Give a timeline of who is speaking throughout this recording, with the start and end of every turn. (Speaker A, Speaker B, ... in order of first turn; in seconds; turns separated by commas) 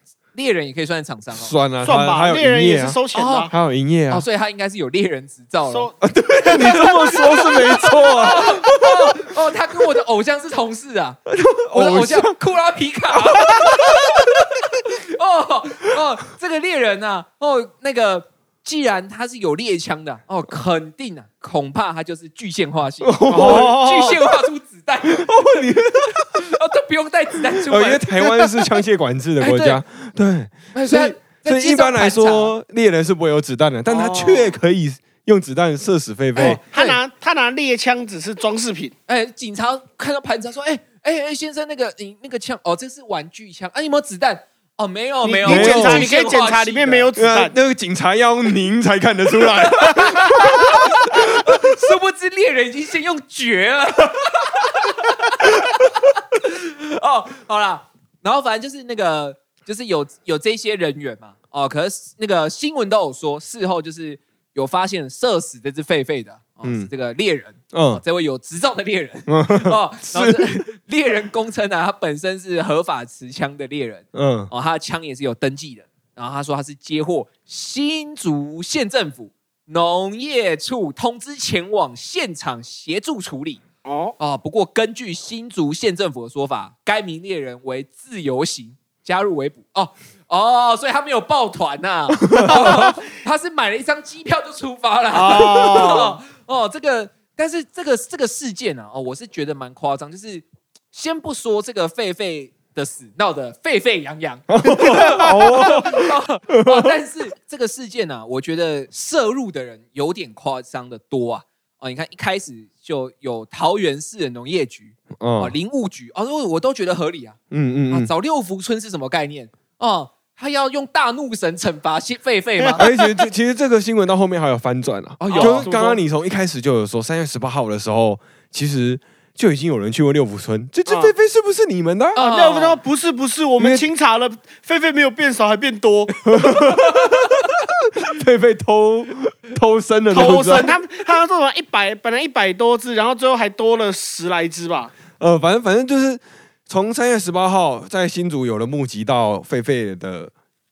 Speaker A: 0.3-1.5, Speaker B: 1.3-3.0, Speaker C: 1.8-3.5, Speaker A: 3.1-3.5, Speaker B: 3.5-4.2, Speaker A: 4.1-5.9, Speaker C: 5.7-8.1, Speaker B: 6.0-9.1, Speaker A: 6.5-11.2, Speaker B: 11.3-12.4, Speaker A: 11.7-28.1, Speaker B: 13.1-14.4, Speaker B: 23.0-24.1, Speaker C: 23.3-24.2, Speaker B: 25.0-26.4, Speaker B: 27.7-36.6, Speaker A: 29.4-29.8, Speaker A: 30.7-32.5, Speaker C: 33.9-34.6, Speaker A: 36.4-37.0, Speaker C: 36.4-38.9, Speaker A: 39.1-47.1, Speaker C: 45.2-47.5, Speaker B: 45.4-46.1, Speaker B: 47.1-51.7, Speaker A: 49.6-83.6, Speaker B: 66.6-66.9, Speaker B: 67.7-68.0, Speaker B: 69.3-70.7, Speaker B: 74.1-74.5, Speaker C: 83.8-84.2, Speaker A: 84.2-117.4, Speaker B: 92.2-92.9, Speaker C: 92.4-92.9, Speaker C: 95.1-96.2, Speaker B: 104.5-106.9, Speaker C: 104.7-105.9, Speaker B: 115.2-115.5, Speaker B: 117.5-118.1, Speaker A: 117.9-122.8, Speaker C: 122.6-123.3, Speaker B: 122.8-132.2, Speaker A: 125.2-125.7, Speaker C: 125.3-126.0, Speaker C: 130.9-131.1, Speaker A: 132.2-132.8, Speaker C: 132.2-136.8, Speaker B: 133.6-133.8, Speaker B: 136.2-140.7, Speaker C: 140.1-144.9, Speaker B: 145.2-150.3